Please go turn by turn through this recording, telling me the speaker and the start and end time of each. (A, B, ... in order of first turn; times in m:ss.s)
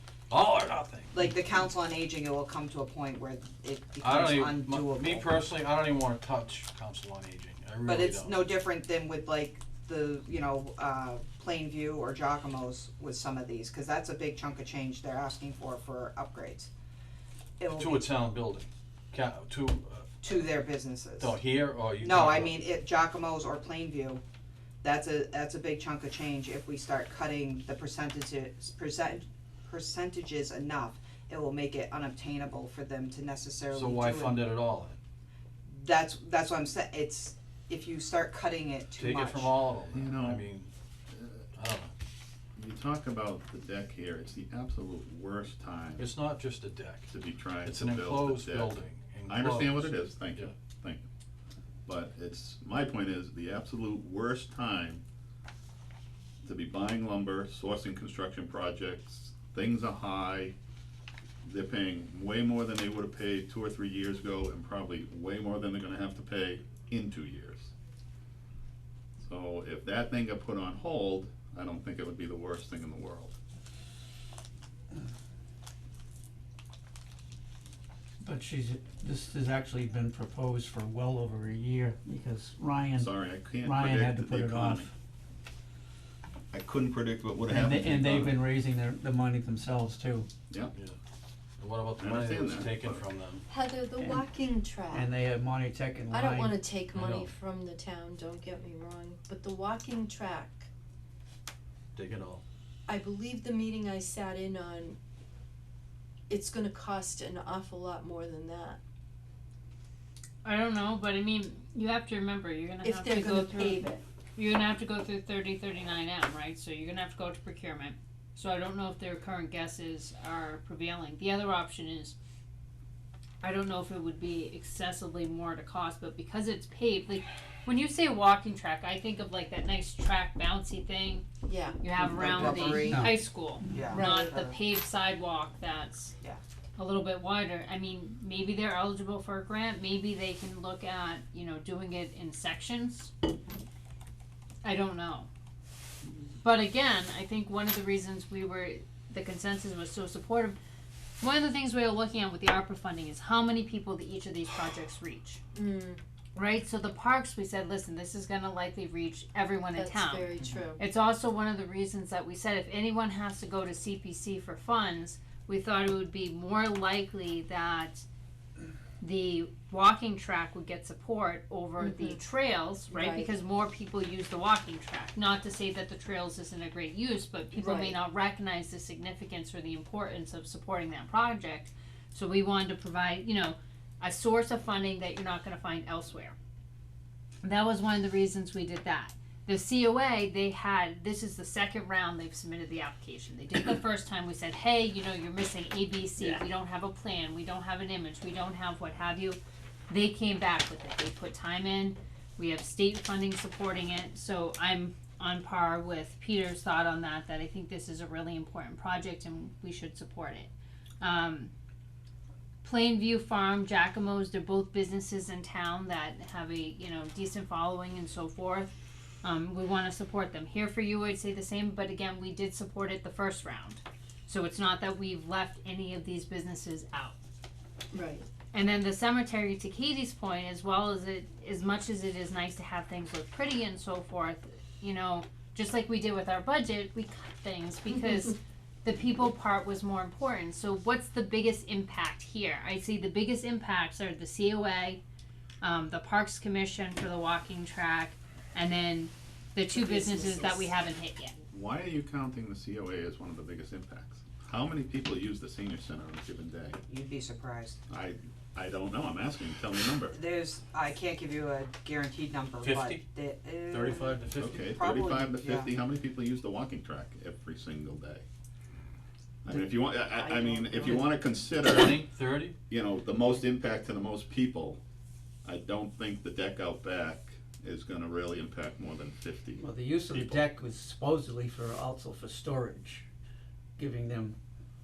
0:00.3-0:01.2 A
0:01.1-0:05.3 B
0:04.0-0:08.4 A
0:07.9-0:16.7 B
0:17.6-0:17.9 B
0:17.7-0:20.5 A
0:20.2-0:21.3 B
0:21.2-0:22.7 A
0:22.0-0:24.2 B
0:24.8-0:34.4 B
0:33.7-0:35.0 A
0:35.7-0:39.5 B
0:39.0-0:40.7 A
0:39.9-0:40.5 C
0:41.1-0:41.5 C
0:41.6-0:41.9 A
0:42.6-0:46.1 C
0:46.0-0:47.1 A
0:47.1-0:51.1 C
0:47.6-0:50.5 A
0:51.9-0:55.0 C
0:56.4-1:00.6 C
1:01.4-1:07.7 C
1:09.2-1:13.4 C
1:18.2-1:24.9 D
1:23.0-1:24.9 C
1:26.5-1:28.4 C
1:27.5-1:30.3 D
1:31.6-1:33.5 A
1:32.0-1:33.0 C
1:33.5-1:35.1 E
1:34.9-1:36.6 D
1:36.1-1:40.7 E
1:36.9-1:37.3 A
1:42.0-1:42.4 A
1:42.9-1:45.0 E
1:46.3-1:48.8 E
1:50.4-2:02.2 F
1:52.8-1:54.0 E
2:03.4-2:11.2 F
2:11.4-2:12.7 E
2:11.8-2:16.1 F
2:12.0-2:13.0 B
2:12.7-2:13.2 D
2:13.7-2:14.6 B
2:16.8-2:23.1 F
2:24.6-2:25.3 F
2:26.4-2:30.6 F
2:31.2-2:35.4 F
2:35.5-2:36.0 E
2:36.4-2:48.0 F
2:39.8-2:40.8 E
2:49.0-3:06.4 F
2:51.8-2:52.2 E
2:52.9-2:53.3 E
2:57.6-2:58.0 E
3:07.4-3:31.5 F
3:32.6-3:47.2 F
3:47.9-3:48.3 E
3:48.5-4:05.0 F
4:05.6-4:11.4 F
4:09.8-4:10.6 E
4:11.5-4:16.8 C
4:16.9-4:17.8 B
4:17.9-4:20.2 C
4:20.1-4:24.1 B
4:22.6-4:23.0 A
4:23.6-4:24.7 A
4:24.4-4:28.2 C
4:24.7-4:25.7 B
4:29.4-4:32.1 C
4:30.0-4:31.1 E
4:31.6-4:32.6 A
4:32.7-4:34.8 C
4:35.4-4:40.5 C
4:39.6-4:43.0 D
4:43.8-4:44.4 D